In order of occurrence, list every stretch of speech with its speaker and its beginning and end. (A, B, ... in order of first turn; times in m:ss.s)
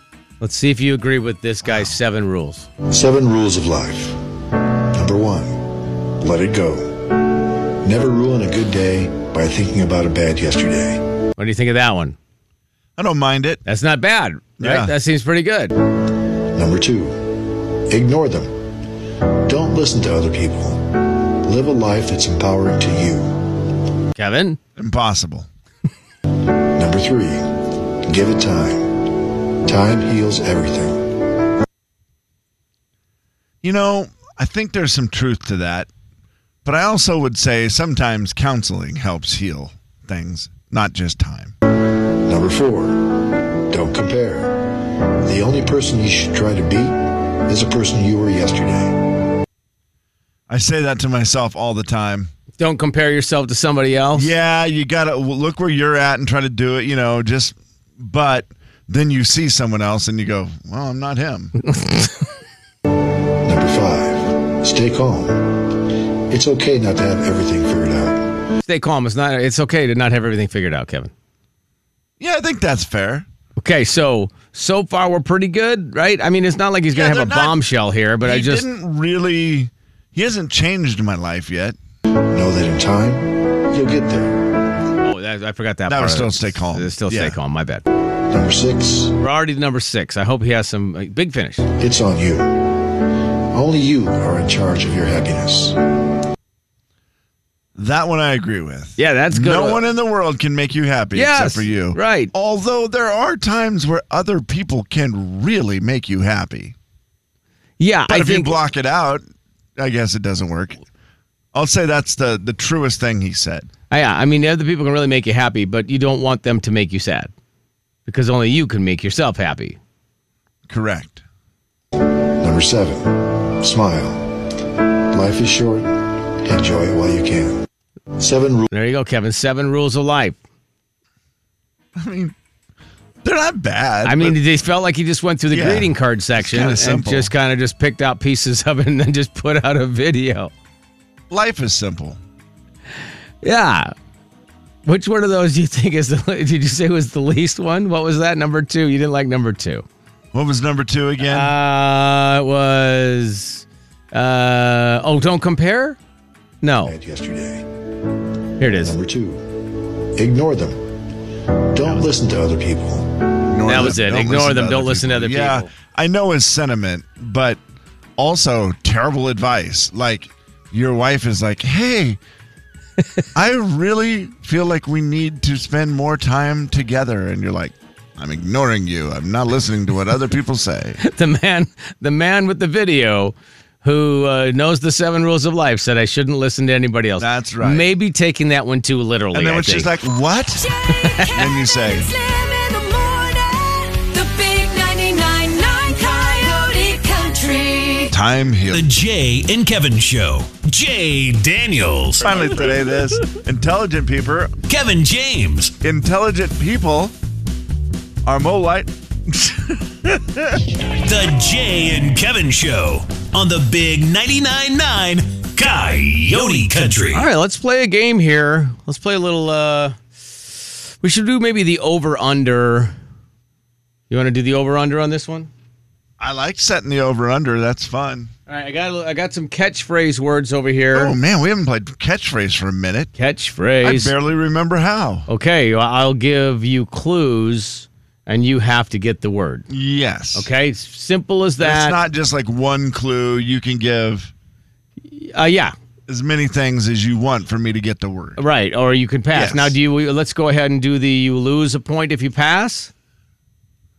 0:00.4-0:02.7 A
0:01.6-0:02.0 B
0:02.9-0:04.2 C
0:04.9-0:11.1 C
0:11.4-0:12.2 A
0:13.0-0:13.6 B
0:13.6-0:15.7 A
0:14.6-0:14.9 B
0:16.5-0:18.7 C
0:19.4-0:23.6 C
0:24.2-0:24.6 A
0:24.8-0:25.5 B
0:26.8-0:29.1 C
0:29.6-0:31.2 C
0:33.6-0:35.9 B
0:36.6-0:41.6 B
0:42.2-0:49.1 C
0:50.5-0:52.3 B
0:52.6-0:54.3 A
0:54.1-1:01.5 B
1:01.6-1:02.2 A
1:03.4-1:08.4 C
1:08.6-1:11.1 A
1:12.2-1:13.3 B
1:13.6-1:18.6 A
1:16.9-1:17.6 B
1:18.2-1:21.8 B
1:22.3-1:24.5 C
1:25.0-1:27.8 A
1:25.9-1:27.4 B
1:28.3-1:29.1 C
1:29.2-1:31.6 A
1:31.8-1:32.9 C
1:33.5-1:35.8 C
1:37.8-1:46.8 B
1:39.0-1:39.8 A
1:41.1-1:42.3 A
1:47.8-1:48.6 A
1:48.1-1:49.2 B
1:49.8-1:50.8 B
1:51.5-1:53.7 B
1:53.9-1:57.3 A
1:58.1-1:59.8 A
2:00.7-2:01.2 B
2:02.4-2:04.4 C
2:05.1-2:07.6 C
2:08.2-2:08.7 C
2:08.7-2:10.4 A
2:12.0-2:12.4 B
2:13.2-2:14.4 B
2:14.0-2:20.5 A
2:15.5-2:17.3 B
2:21.3-2:22.2 B
2:23.4-2:23.9 A
2:24.9-2:29.8 A
2:30.3-2:31.5 B
2:31.2-2:36.0 A
2:36.6-2:36.9 A
2:36.8-2:37.7 C
2:38.6-2:38.9 A
2:38.8-2:41.0 C
2:41.7-2:43.3 C
2:43.5-2:47.6 B
2:43.7-2:45.7 A
2:48.2-2:52.2 B
2:53.4-3:01.0 B
3:01.0-3:09.9 A
3:07.2-3:07.9 B
3:09.3-3:10.7 B
3:11.0-3:11.4 A
3:11.0-3:18.1 D
3:11.3-3:12.1 B
3:18.1-3:18.9 B
3:18.7-3:22.3 E
3:22.2-3:24.5 B
3:24.7-3:25.7 E
3:25.8-3:27.1 B
3:28.2-3:30.6 B
3:31.0-3:37.3 E
3:37.1-3:43.0 A
3:44.1-3:45.5 A
3:46.2-3:48.3 B
3:48.5-3:51.2 A
3:50.9-3:53.1 B
3:53.2-3:54.1 A
3:53.8-3:55.3 B
3:55.3-3:59.7 A
3:59.7-4:00.5 B
4:00.4-4:02.0 A
4:01.6-4:04.3 B
4:05.1-4:05.8 A
4:06.1-4:08.4 B
4:08.4-4:12.9 A
4:09.3-4:09.8 B